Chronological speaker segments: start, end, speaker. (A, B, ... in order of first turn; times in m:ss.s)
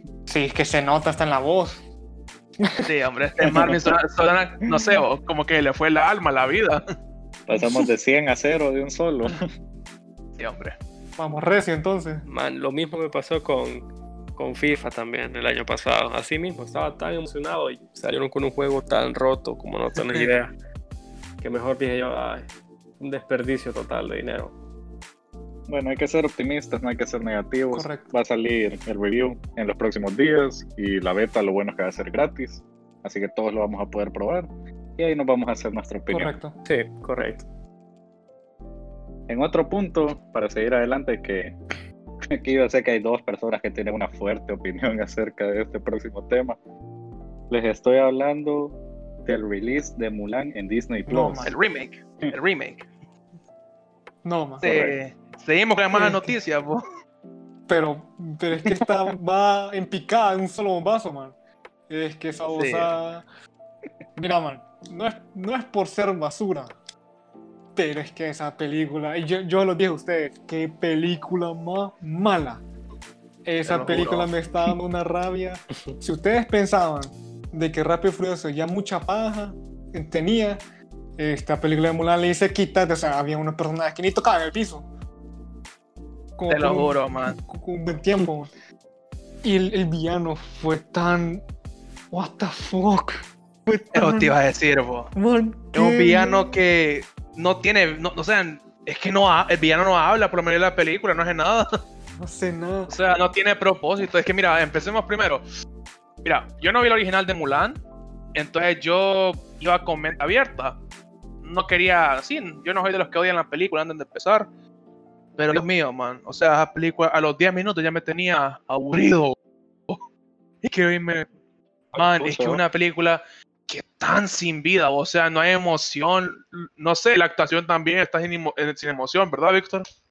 0:00.3-0:01.8 A
0:02.6-0:02.9 A
0:02.8-0:06.8 B
0:03.4-0:03.9 C
0:04.6-0:05.0 C
0:07.5-0:09.5 C
0:10.4-0:10.8 B
0:11.2-0:12.3 A
0:12.3-0:13.8 D
0:14.4-0:20.5 D
0:21.4-0:22.5 D
0:23.0-0:24.6 D
0:25.7-0:36.4 C
0:27.7-0:28.1 A
0:36.1-0:36.6 A
0:36.6-0:37.4 D
0:39.3-0:41.6 C
0:42.3-0:46.6 C
0:47.5-0:51.5 C
0:51.1-0:51.5 A
0:51.4-0:52.9 B
0:54.2-0:54.6 A
0:54.6-0:54.9 C
0:54.6-0:56.8 B
0:55.9-0:56.4 A
0:57.7-1:01.4 A
1:01.9-1:03.2 A
1:02.5-1:03.0 B
1:04.2-1:06.7 A
1:07.8-1:12.6 A
1:13.4-1:20.6 A
1:13.6-1:14.3 D
1:21.2-1:24.9 A
1:26.4-1:28.5 A
1:26.5-1:27.4 B
1:29.4-1:31.4 A
1:32.1-1:34.3 A
1:33.9-1:35.1 B
1:35.2-1:36.5 A
1:35.7-1:41.7 B
1:42.2-1:43.0 A
1:42.9-1:45.4 B
1:46.2-1:47.8 B
1:48.4-1:50.8 B
1:51.4-1:54.5 B
1:55.4-1:59.4 B
2:00.6-2:01.3 B
2:01.9-2:02.6 C
2:02.0-2:09.9 B